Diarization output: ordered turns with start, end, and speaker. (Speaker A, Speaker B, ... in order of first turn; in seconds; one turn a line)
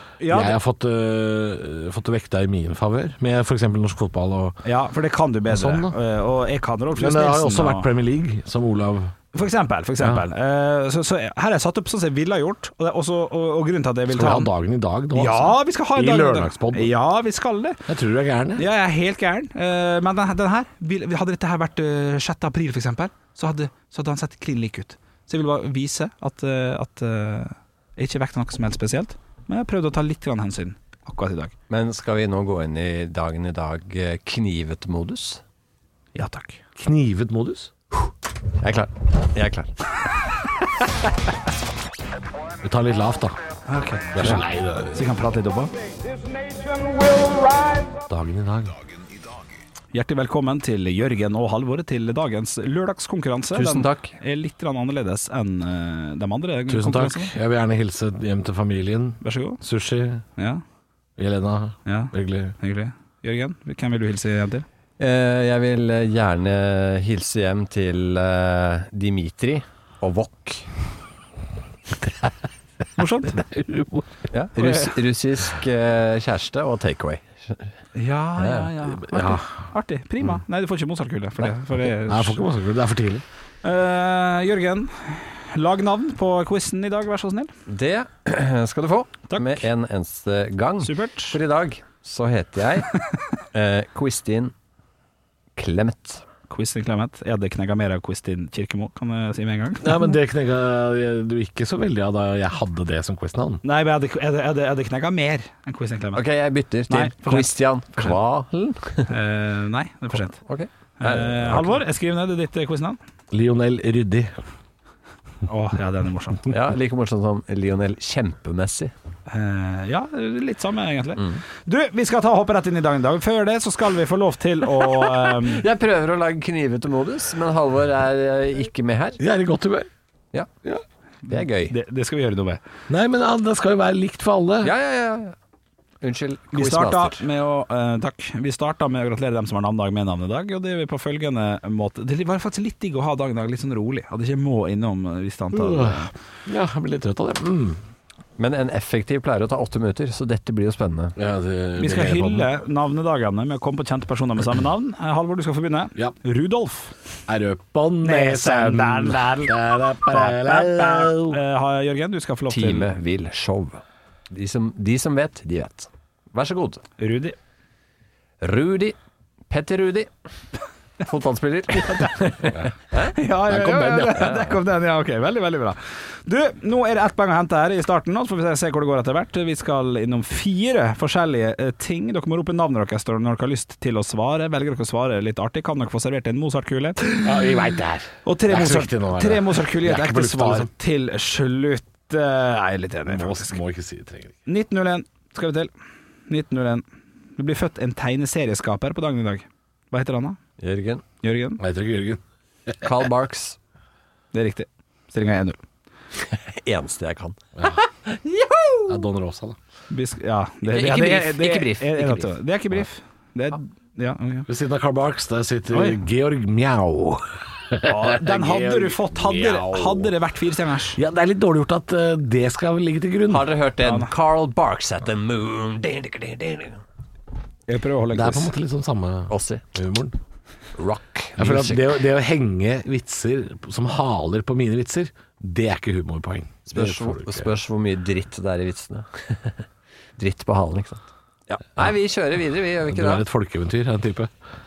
Speaker A: 0.2-0.6
Speaker B: 0.3-4.6
Speaker A: 4.6-7.9
Speaker B: 5.5-5.9
Speaker B: 7.0-9.1
Speaker A: 9.3-14.5
Speaker B: 14.1-16.9
Speaker A: 15.1-17.8
Speaker B: 17.9-18.6
Speaker A: 18.6-31.5
Speaker C: 31.7-35.4
Speaker A: 36.1-36.6
Speaker B: 36.8-37.7
Speaker C: 38.6-39.7
Speaker B: 42.6-43.4
Speaker A: 43.7-44.4
Speaker B: 44.1-45.0
Speaker A: 44.9-45.7
Speaker A: 46.8-47.8
Speaker B: 48.1-48.7
Speaker A: 49.9-57.3
Speaker C: 53.5-54.1
Speaker B: 56.7-60.2
Speaker A: 59.2-59.6
Speaker A: 60.4-60.6
Speaker B: 61.2-62.5
Speaker A: 61.9-64.7
Speaker C: 65.0-70.7
Speaker A: 73.0-73.4
Speaker B: 73.3-74.2
Speaker C: 74.3-77.7
Speaker A: 77.9-82.4
Speaker B: 78.4-79.5
Speaker B: 82.0-83.2
Speaker A: 83.6-87.5
Speaker C: 87.7-93.0
Speaker A: 89.3-89.6
Speaker A: 90.8-91.4
Speaker C: 93.5-94.5
Speaker C: 95.5-96.2
Speaker A: 96.5-99.9
Speaker B: 99.8-103.6
Speaker A: 103.6-106.2
Speaker C: 106.1-109.1
Speaker A: 106.9-108.1
Speaker A: 109.1-110.4
Speaker C: 110.5-111.7
Speaker A: 111.0-113.0
Speaker B: 113.3-114.3
Speaker A: 115.5-116.5
Speaker C: 116.5-118.9
Speaker A: 119.3-125.6
Speaker C: 125.2-129.2
Speaker B: 129.2-129.9
Speaker C: 131.3-131.7
Speaker A: 131.3-132.6
Speaker B: 132.9-134.7
Speaker C: 134.6-135.3
Speaker C: 136.0-137.2
Speaker A: 136.5-146.1
Speaker B: 145.5-147.8
Speaker C: 148.4-151.1
Speaker B: 151.2-152.5
Speaker A: 151.8-156.9
Speaker B: 157.3-161.4
Speaker A: 158.0-159.6
Speaker A: 160.1-162.9
Speaker C: 162.5-166.8
Speaker A: 167.0-167.3
Speaker C: 168.4-168.9
Speaker C: 169.5-170.1
Speaker C: 171.0-173.1
Speaker A: 171.8-172.1
Speaker A: 173.0-187.5
Speaker B: 173.4-174.3
Speaker B: 187.2-190.7
Speaker A: 188.2-193.6
Speaker B: 193.1-194.3
Speaker A: 194.4-195.7
Speaker A: 196.3-196.8
Speaker A: 197.4-200.4
Speaker C: 200.6-201.0
Speaker A: 201.2-201.6
Speaker B: 201.6-202.9
Speaker C: 202.8-203.6
Speaker A: 204.3-205.6
Speaker C: 206.3-209.0
Speaker B: 207.6-207.8
Speaker B: 208.9-209.6
Speaker A: 209.9-214.5
Speaker C: 210.7-212.3
Speaker B: 214.5-220.1
Speaker A: 215.7-216.0
Speaker A: 217.8-221.0
Speaker B: 220.9-223.5
Speaker C: 223.3-226.8
Speaker A: 223.8-224.1
Speaker A: 227.7-228.5
Speaker B: 228.1-230.2
Speaker C: 229.3-229.6
Speaker C: 230.8-231.9
Speaker B: 231.4-237.5
Speaker C: 236.7-239.5
Speaker C: 240.2-243.2
Speaker B: 242.8-244.3